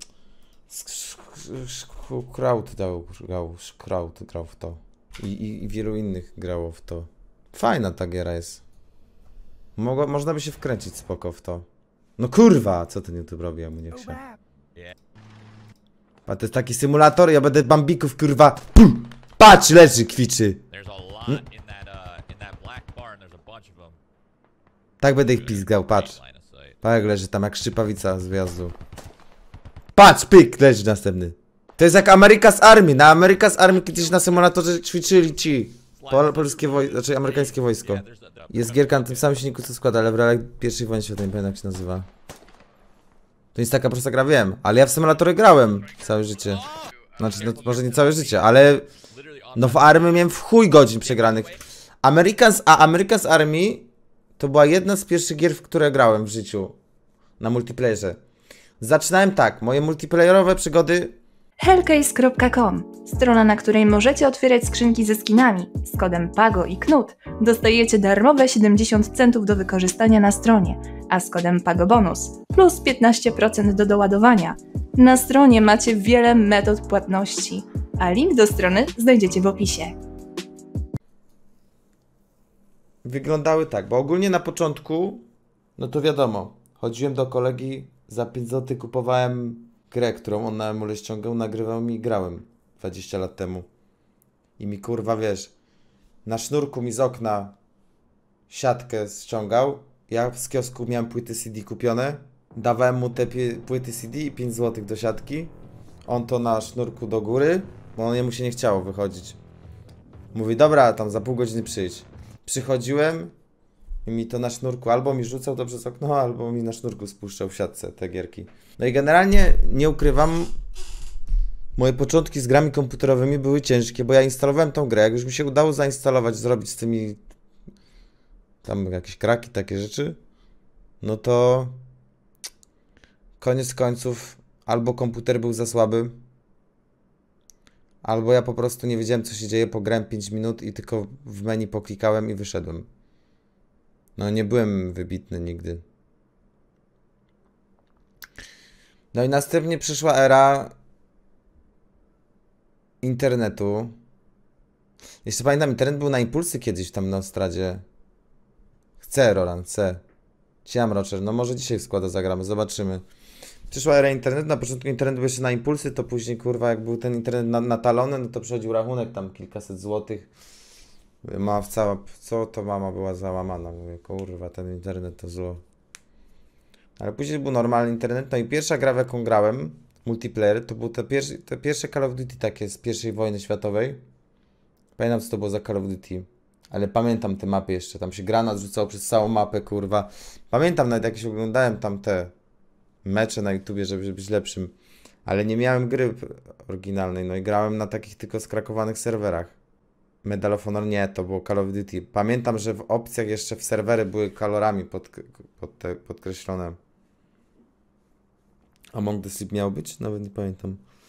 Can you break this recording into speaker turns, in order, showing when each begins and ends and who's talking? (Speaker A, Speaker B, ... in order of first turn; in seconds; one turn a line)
Speaker A: 0.7-8.6
Speaker A: 9.8-11.7
Speaker A: 12.2-14.2
Speaker A: 16.3-20.6
Speaker B: 20.7-24.0
Speaker A: 25.0-26.2
Speaker B: 25.2-26.8
Speaker A: 26.8-28.8
Speaker A: 29.9-42.1
Speaker B: 33.8-34.5
Speaker B: 36.0-39.4
Speaker A: 43.5-46.6
Speaker B: 46.5-48.4
Speaker A: 47.2-48.9
Speaker B: 49.1-50.4
Speaker A: 49.5-56.8
Speaker B: 51.0-51.6
Speaker A: 57.4-58.2
Speaker A: 58.8-61.2
Speaker C: 61.6-80.0
Speaker A: 83.0-85.2
Speaker A: 85.8-93.7
Speaker A: 94.6-95.5
Speaker A: 96.2-97.5
Speaker A: 98.5-105.5
Speaker A: 106.1-109.4
Speaker A: 110.3-113.3
Speaker A: 114.0-120.5
Speaker A: 121.8-127.2
Speaker A: 128.6-130.2
Speaker A: 131.0-131.8
Speaker A: 133.4-136.2
Speaker A: 138.0-142.9
Speaker A: 144.2-145.8
Speaker A: 149.1-150.7
Speaker A: 153.0-153.9
Speaker A: 155.2-157.8
Speaker A: 159.0-160.0
Speaker A: 160.7-163.0
Speaker A: 163.7-170.3
Speaker A: 171.2-175.6
Speaker A: 177.0-184.0
Speaker A: 185.0-192.3
Speaker A: 193.1-194.7
Speaker A: 195.2-199.6
Speaker A: 200.2-206.8
Speaker A: 208.9-210.8